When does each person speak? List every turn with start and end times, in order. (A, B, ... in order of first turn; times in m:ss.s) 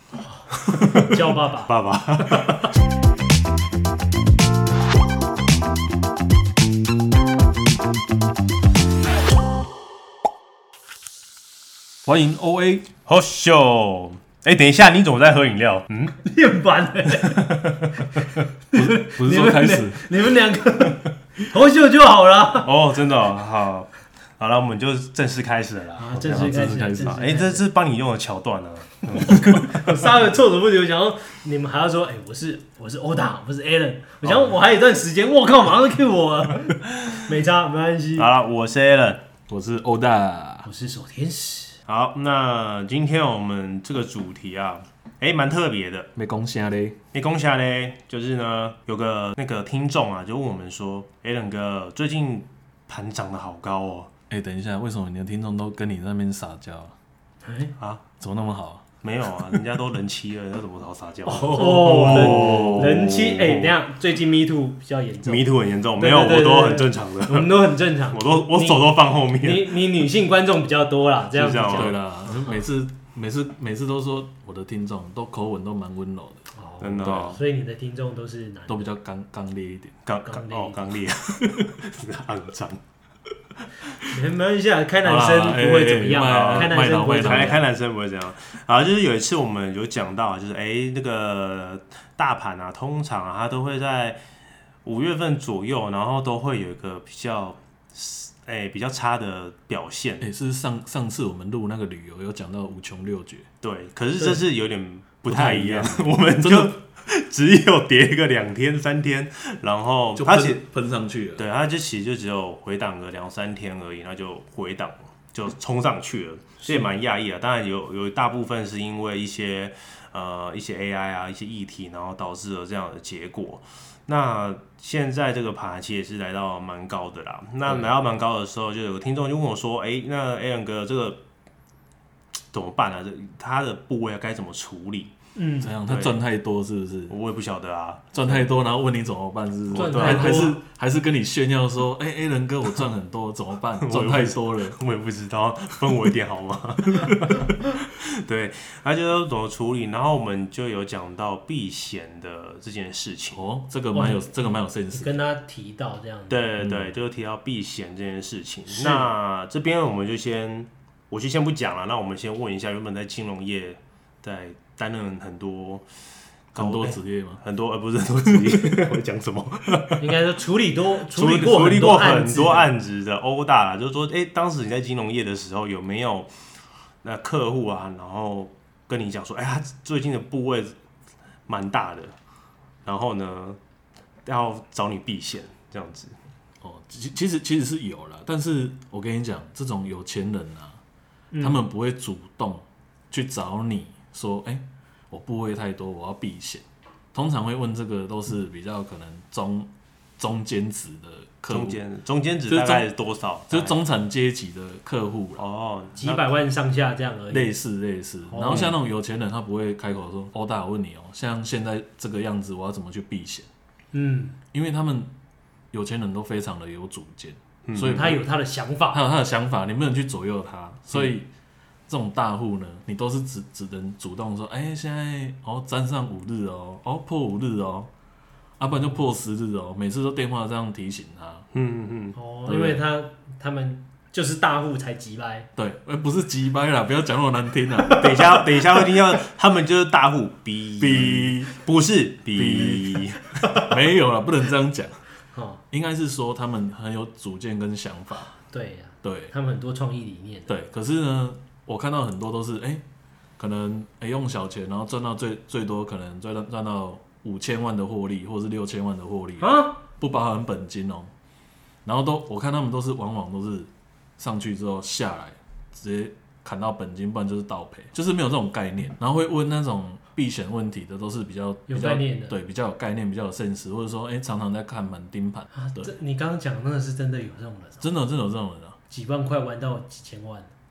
0:00.2-0:01.7 A
0:00.5-0:02.7 B
0:02.2-0:02.7 A
0:12.0-0:12.9 C
0:13.0-0:16.2 B
0:16.2-0:17.6 A
0:17.2-0:18.1 B
0:18.7-0:22.7 A
0:18.7-0:20.2 C
0:22.6-0:30.3 B
0:26.0-0:27.7 A
0:26.1-0:27.3 C
0:29.1-0:38.3 A
0:34.2-0:34.6 B
0:38.2-0:39.2 B
0:39.5-0:40.7 C
0:40.6-0:41.8 A
0:41.9-0:46.1 B
0:46.2-0:47.0 C
0:47.1-0:54.1 B
0:54.3-0:57.0 C
0:57.4-0:57.7 A
0:58.2-0:58.9 C
0:59.0-1:03.7 B
1:01.3-1:12.5 A
1:01.8-1:03.0 C
1:05.2-1:09.8 B
1:11.3-1:12.0 B
1:11.7-1:16.5 C
1:16.6-1:18.9 A
1:16.8-1:17.4 B
1:17.0-1:17.4 C
1:18.7-1:20.0 C
1:20.1-1:22.8 B
1:20.2-1:20.8 A
1:24.0-1:27.6 A
1:25.0-1:27.6 C
1:26.2-1:34.2 B
1:34.8-1:40.2 B
1:40.2-1:43.5 C
1:43.6-1:50.6 B
1:45.3-1:46.7 C
1:50.2-1:51.5 C
1:51.4-2:11.2 B
1:56.6-1:56.9 A
2:07.7-2:07.9 C
2:12.5-2:15.1 B
2:15.4-2:15.8 A
2:15.6-2:17.1 C
2:15.8-2:16.2 B
2:17.1-2:18.5 B
2:18.1-2:24.8 C
2:19.7-2:20.5 B
2:19.7-2:20.6 A
2:23.8-2:33.4 B
2:33.3-2:35.1 C
2:33.9-2:36.4 A
2:36.3-2:45.9 B
2:36.6-2:36.9 C
2:38.7-2:39.1 A
2:46.5-2:50.1 B
2:46.5-2:47.4 C
2:48.2-2:48.9 C
2:50.0-2:52.7 A
2:51.1-2:56.3 B
2:57.0-3:00.8 B
3:01.5-3:02.2 B
3:02.8-3:03.6 B
3:04.2-3:06.2 B
3:06.6-3:10.8 C
3:11.3-3:11.6 A
3:11.4-3:21.8 C
3:21.5-3:23.8 B
3:22.5-3:22.9 C
3:23.5-3:25.4 C
3:25.4-3:26.2 B
3:26.0-3:27.6 A
3:27.3-3:33.5 C
3:28.3-3:28.7 A
3:28.4-3:28.8 B
3:33.9-3:34.4 A
3:34.5-3:35.1 C
3:35.7-3:38.2 C
3:37.6-3:38.1 B
3:37.9-3:39.0 A
3:38.9-3:41.3 C
3:41.9-3:47.9 C
3:48.6-3:51.5 C
3:51.5-3:52.2 B
3:52.2-3:55.5 A
3:52.5-3:52.8 C
3:55.6-3:58.1 C
3:58.0-4:03.2 B
4:00.8-4:01.5 C
4:02.3-4:05.0 C
4:05.3-4:05.6 A
4:05.7-4:08.3 C
4:08.4-4:10.6 A
4:09.0-4:09.3 C
4:10.5-4:12.8 C
4:13.4-4:21.1 C
4:19.4-4:19.8 A
4:21.8-4:35.9 C
4:31.7-4:32.4 A
4:35.6-4:37.9 A
4:37.8-4:38.8 C
4:38.9-4:40.5 A